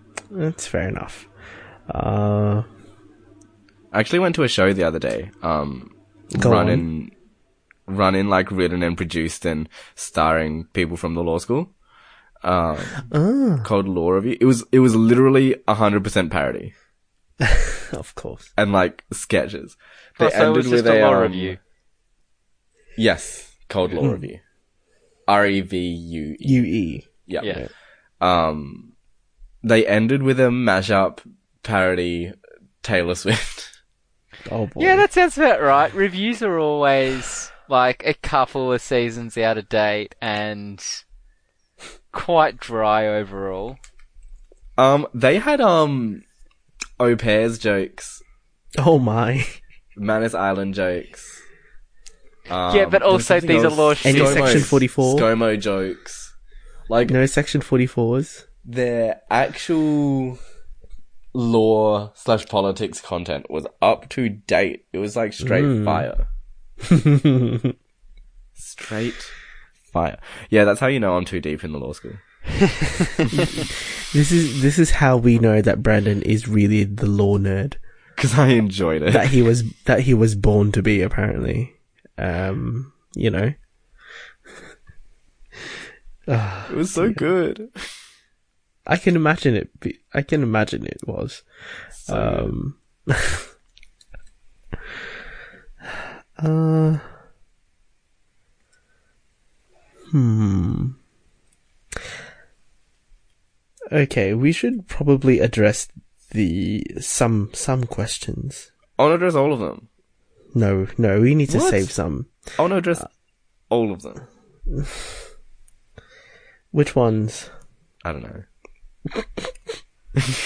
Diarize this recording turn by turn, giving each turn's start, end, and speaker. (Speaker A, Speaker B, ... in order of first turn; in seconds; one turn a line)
Speaker A: 0.3-1.3
Speaker A: 1.9-2.6
Speaker B: 3.9-7.1
Speaker A: 6.3-6.8
Speaker B: 7.9-11.7
Speaker B: 12.4-13.1
Speaker A: 13.1-13.7
Speaker B: 13.6-16.7
Speaker A: 17.4-18.5
Speaker B: 18.6-21.6
Speaker C: 20.2-21.6
Speaker B: 22.9-24.4
Speaker A: 24.0-24.2
Speaker B: 25.3-26.7
Speaker A: 26.4-27.7
Speaker B: 27.2-27.6
Speaker B: 28.2-28.9
Speaker B: 29.6-33.8
Speaker A: 34.5-35.0
Speaker C: 34.8-41.0
Speaker C: 42.1-43.8
Speaker B: 44.8-46.2
Speaker B: 47.0-48.2
Speaker A: 48.8-49.6
Speaker B: 50.0-51.4
Speaker B: 52.5-56.3
Speaker C: 52.7-54.7
Speaker A: 54.0-55.3
Speaker B: 56.9-57.1
Speaker A: 57.0-58.4
Speaker B: 58.6-60.4
Speaker B: 61.3-66.3
Speaker A: 65.4-66.1
Speaker A: 66.8-67.7
Speaker B: 68.6-69.3
Speaker B: 69.9-72.2
Speaker B: 73.2-73.5
Speaker A: 73.5-77.8
Speaker B: 78.2-79.4
Speaker A: 79.1-83.5
Speaker A: 86.3-87.2
Speaker B: 86.7-87.9
Speaker A: 88.8-93.5
Speaker B: 92.0-92.5
Speaker A: 96.4-97.1
Speaker A: 100.1-101.0
Speaker A: 103.9-108.7
Speaker B: 109.0-109.9
Speaker A: 110.5-112.5
Speaker B: 111.5-111.9
Speaker B: 112.5-113.1
Speaker B: 113.7-114.2
Speaker A: 114.7-115.1
Speaker A: 116.7-117.5
Speaker B: 118.0-118.4
Speaker A: 119.2-119.5